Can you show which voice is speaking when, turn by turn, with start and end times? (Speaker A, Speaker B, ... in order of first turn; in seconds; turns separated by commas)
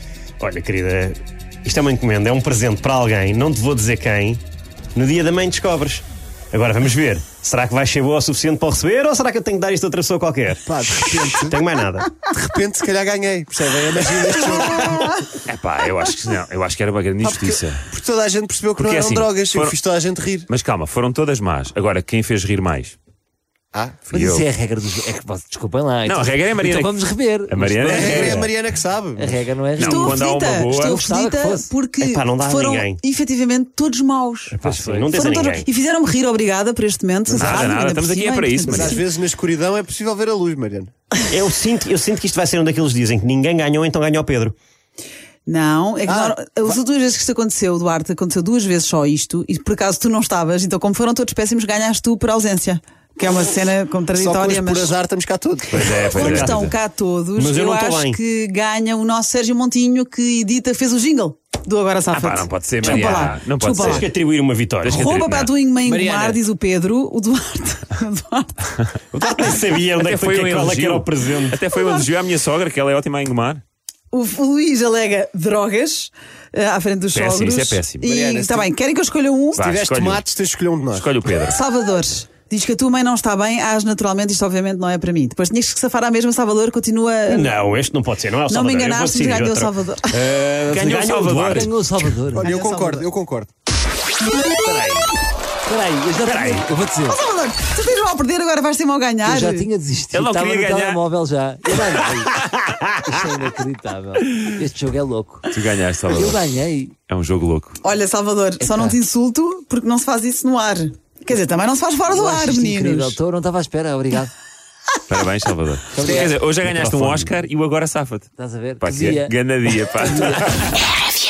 Speaker A: 0.4-4.4, Speaker A: 4.9-12.1, Speaker B: 10.7-11.6, Speaker B: 12.3-15.1, Speaker C: 15.4-17.8, Speaker B: 17.2-20.5, Speaker C: 18.8-19.8, Speaker C: 20.5-22.9, Speaker B: 23.7-24.0, Speaker D: 24.1-28.5, Speaker C: 24.1-24.5, Speaker C: 26.0-28.4, Speaker B: 27.8-29.4, Speaker D: 29.1-30.2, Speaker C: 29.8-31.0, Speaker E: 29.8-34.6, Speaker D: 30.8-31.7, Speaker A: 32.0-33.0, Speaker D: 34.5-35.2, Speaker A: 34.6-35.7, Speaker E: 35.1-39.0, Speaker C: 37.3-39.0, Speaker B: 38.6-40.9, Speaker A: 41.3-44.5, Speaker E: 45.5-54.9, Speaker B: 46.0-46.8, Speaker B: 54.1-55.7, Speaker C: 55.7-56.7, Speaker A: 55.7-56.6, Speaker E: 55.9-64.1, Speaker A: 57.4-58.2, Speaker C: 62.1-64.1, Speaker A: 62.8-63.3, Speaker A: 63.8-65.0, Speaker C: 64.8-65.5, Speaker E: 64.9-68.6, Speaker A: 69.1-71.6, Speaker C: 70.0-73.6, Speaker E: 71.7-72.0, Speaker E: 74.1-79.7, Speaker C: 77.1-78.1, Speaker B: 78.0-78.7, Speaker C: 79.5-80.2, Speaker B: 79.6-81.1, Speaker C: 80.9-81.5, Speaker E: 81.5-87.6, Speaker A: 87.3-91.7, Speaker E: 88.5-90.2, Speaker C: 90.7-91.7, Speaker D: 91.5-92.5, Speaker E: 92.4-93.1, Speaker B: 92.4-93.5, Speaker A: 94.7-95.0, Speaker D: 95.7-97.2, Speaker E: 96.3-99.7, Speaker D: 99.2-102.5, Speaker C: 100.1-101.0, Speaker D: 103.0-105.5, Speaker C: 105.5-106.4, Speaker D: 106.1-107.0, Speaker C: 107.1-107.8, Speaker E: 107.8-113.2, Speaker D: 108.6-109.0, Speaker D: 112.1-114.3, Speaker C: 115.1-120.9, Speaker D: 115.9-116.3, Speaker A: 116.0-117.3, Speaker D: 118.4-119.3